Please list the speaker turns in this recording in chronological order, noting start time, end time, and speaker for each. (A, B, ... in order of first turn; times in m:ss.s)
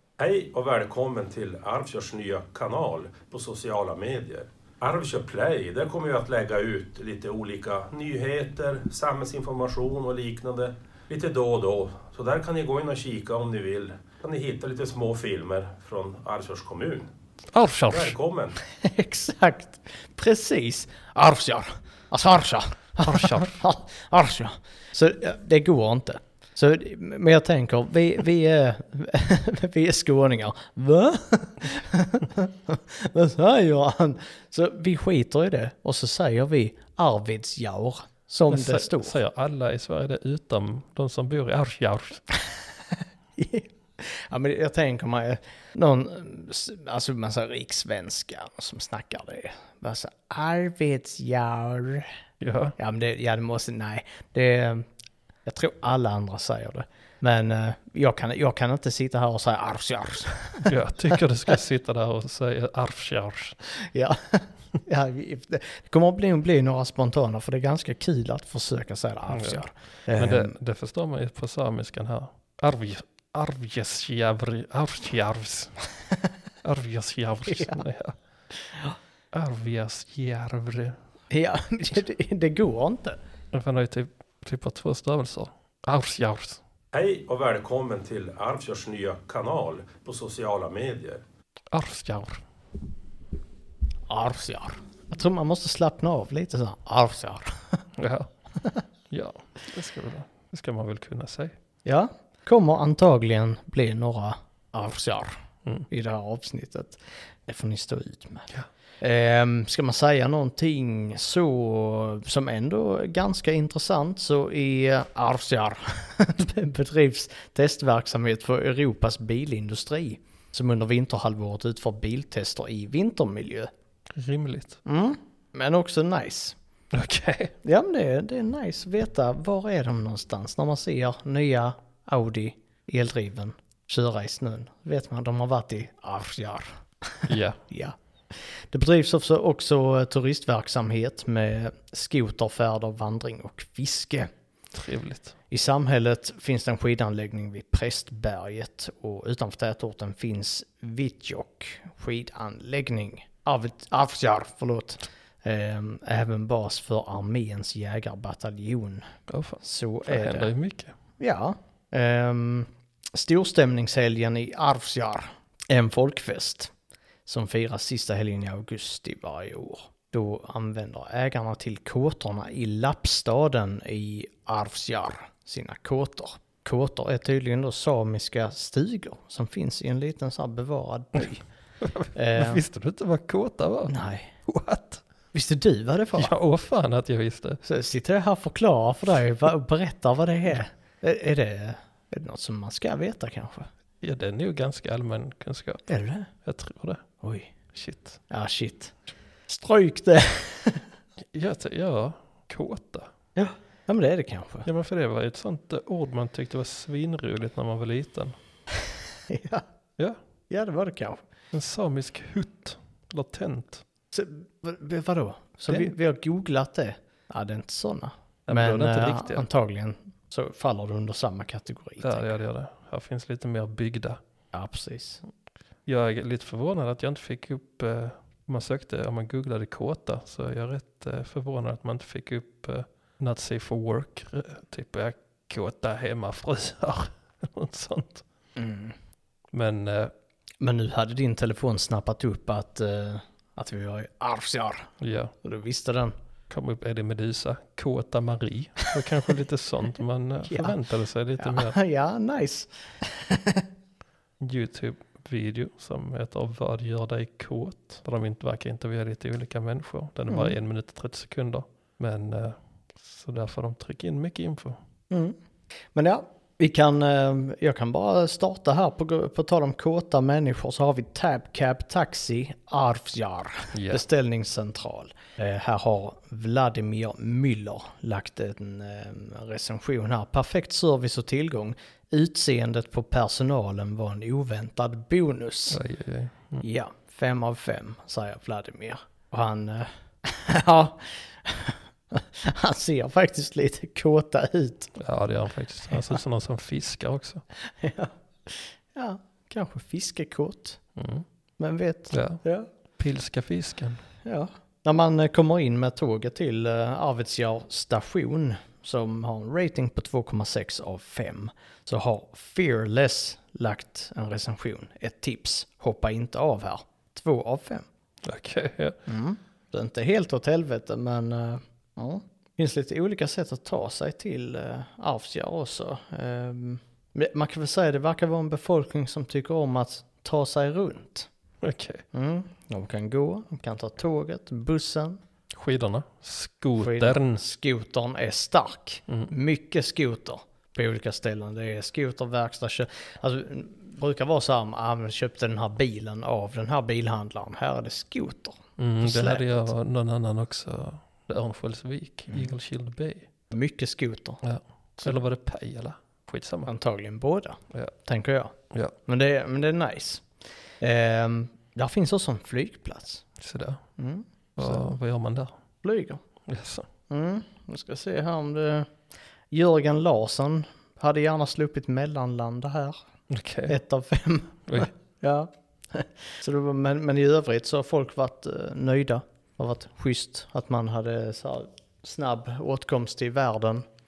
0:00.2-0:17.1 A
0:17.5-0:18.2 B
0:17.9-0:18.6 A
0:18.7-0:39.2 C
0:23.0-0:23.6 B
0:38.5-0:42.2 B
0:43.4-0:52.1 C
0:52.4-0:52.8 B
0:52.8-0:54.9 C
0:55.4-1:01.5 C
1:00.6-1:03.6 B
1:03.7-1:10.6 C
1:09.3-1:15.8 B
1:16.6-1:18.2 B
1:17.5-1:17.8 C
1:19.3-1:21.0 B
1:21.3-1:23.2 C
1:23.5-1:26.6 B
1:26.9-1:31.2 A
1:31.7-1:32.4 B
1:34.1-1:37.8 C
1:38.0-1:38.3 B
1:39.1-1:41.6 B
1:41.8-1:45.4 C
1:45.9-2:03.7 C
2:04.1-2:04.8 B
2:04.8-2:06.6 C
2:06.9-2:07.6 B
2:07.6-2:24.3 C
2:17.3-2:17.6 B
2:24.7-2:25.4 B
2:25.5-2:39.1 C
2:39.3-2:41.0 B
2:39.6-2:40.5 C
2:41.2-2:46.7 C
2:47.3-3:01.4 C
3:01.8-3:04.0 B
3:02.1-3:02.6 C
3:03.9-3:04.4 C
3:04.5-3:05.0 B
3:05.3-3:06.3 C
3:06.2-3:07.6 B
3:07.6-3:13.7 C
3:14.0-3:15.8 B
3:15.9-3:16.3 C
3:16.4-3:17.0 B
3:17.2-3:17.5 C
3:17.7-3:18.2 B
3:18.3-3:20.9 C
3:21.3-3:23.1 B
3:23.4-3:24.7 C
3:24.6-3:28.4 B
3:29.3-3:29.6 C
3:30.5-3:31.2 C
3:31.5-3:33.8 B
3:34.1-3:42.4 C
3:38.5-3:39.5 B
3:42.0-3:44.2 B
3:44.5-3:45.2 C
3:45.9-3:58.2 B
3:58.6-3:59.0 C
3:59.5-4:00.1 B
4:00.6-4:06.2 C
4:05.0-4:05.3 B
4:06.5-4:11.8 B
4:10.5-4:10.8 C
4:11.4-4:13.6 C
4:14.4-4:24.8 B
4:20.3-4:20.6 C
4:25.1-4:25.4 C
4:26.0-4:45.8 C
4:33.7-4:34.0 B
4:45.7-4:46.6 B
4:46.6-4:55.0 C
4:55.0-4:57.4 B
4:57.8-5:00.8 C
5:01.0-5:01.2 B
5:01.6-5:02.7 C
5:02.1-5:02.4 B
5:03.0-5:04.0 B
5:04.2-5:17.9 C
5:18.2-5:19.0 B
5:19.1-5:31.3 C
5:31.6-5:32.0 B
5:32.1-5:35.2 C
5:35.5-5:37.4 B
5:36.8-5:49.7 C
5:48.8-5:53.3 B
5:53.5-5:54.4 C
5:54.4-5:56.7 B
5:56.7-5:58.5 C
5:59.0-6:00.3 C
6:00.8-6:03.2 C
6:03.4-6:03.8 B
6:04.0-6:04.9 C
6:04.6-6:05.5 B
6:05.8-6:06.2 C
6:06.5-6:06.9 B
6:07.1-6:08.9 C
6:09.5-6:13.0 C
6:13.3-6:13.8 B
6:13.7-6:23.8 C